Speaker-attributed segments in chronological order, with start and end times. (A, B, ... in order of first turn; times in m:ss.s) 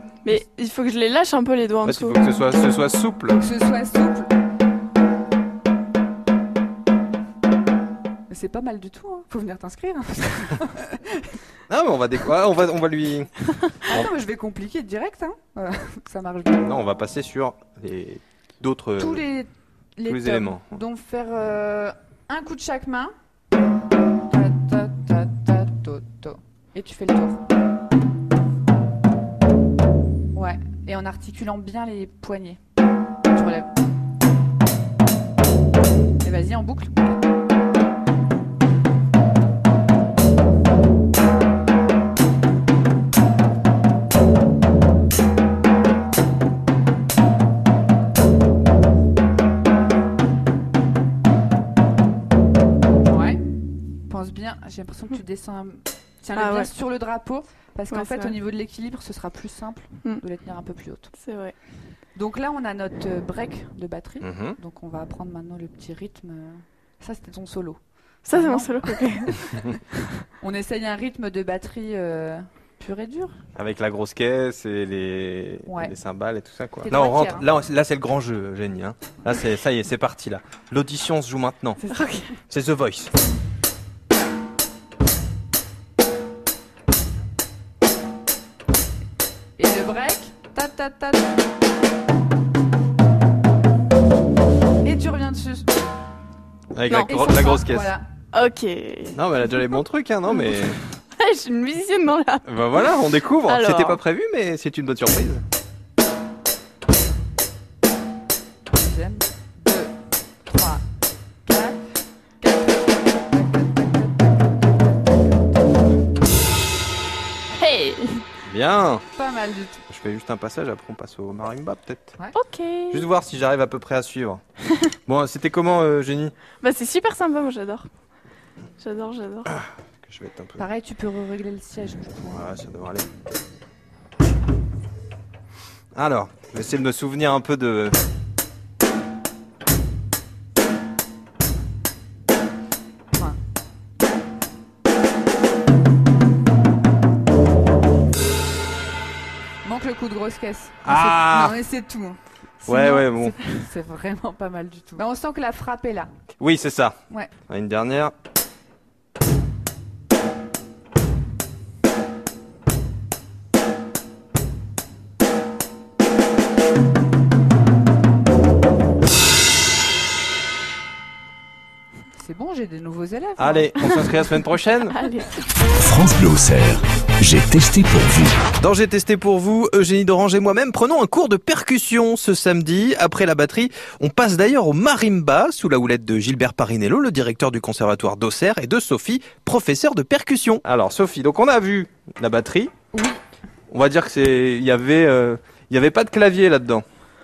0:00.2-0:02.2 A
0:01.8-0:03.4 B
0:03.3-0:04.3 C
0:08.3-0:11.4 C
0:11.7-0:13.3 B
0:13.8-0:16.6 C
0:16.6-0:19.2 B
0:19.0-0:23.1 C
0:20.0-0:20.8 B
0:24.3-0:27.4 C
0:30.3-0:32.6 C
0:33.3-0:33.7 C
0:36.2-0:37.2 C
0:53.0-0:53.4 C
0:54.1-1:01.1 C
0:56.3-0:56.7 A
0:57.9-0:58.4 A
1:01.1-1:01.5 A
1:02.2-1:07.8 C
1:04.2-1:04.6 B
1:08.2-1:09.6 A
1:08.3-1:09.8 C
1:10.4-1:13.4 C
1:13.6-1:21.8 B
1:15.6-1:15.9 C
1:16.8-1:17.4 C
1:21.8-1:22.3 C
1:21.9-1:22.3 A
1:22.5-1:23.1 B
1:29.6-1:31.3 C
1:34.8-1:35.7 C
1:36.7-1:37.9 B
1:36.9-1:37.2 A
1:37.0-1:38.0 C
1:38.3-1:39.5 A
1:39.1-1:40.8 B
1:41.1-1:44.0 A
1:42.4-1:45.4 B
1:48.7-1:49.9 C
1:50.4-1:50.8 C
1:51.4-1:51.8 C
1:52.4-1:54.5 C
1:57.5-1:58.2 A
1:58.4-1:59.0 B
1:59.1-1:59.8 C
1:59.9-2:02.1 B
2:02.3-2:03.0 A
2:02.9-2:04.4 B
2:05.0-2:06.3 B
2:06.6-2:07.9 A
2:08.8-2:09.5 A
2:09.5-2:10.6 B
2:10.6-2:12.4 C
2:12.3-2:13.0 B
2:15.9-2:18.0 B
2:29.6-2:36.1 C
2:30.8-2:31.6 B
2:32.6-2:33.6 B
2:36.4-2:37.0 B
2:37.5-2:38.1 B
2:52.2-2:53.7 C
2:53.4-2:54.9 B
2:54.9-2:55.4 A
2:55.7-2:58.5 D
2:58.6-3:12.7 B
3:12.9-3:13.2 C
3:13.7-3:16.8 B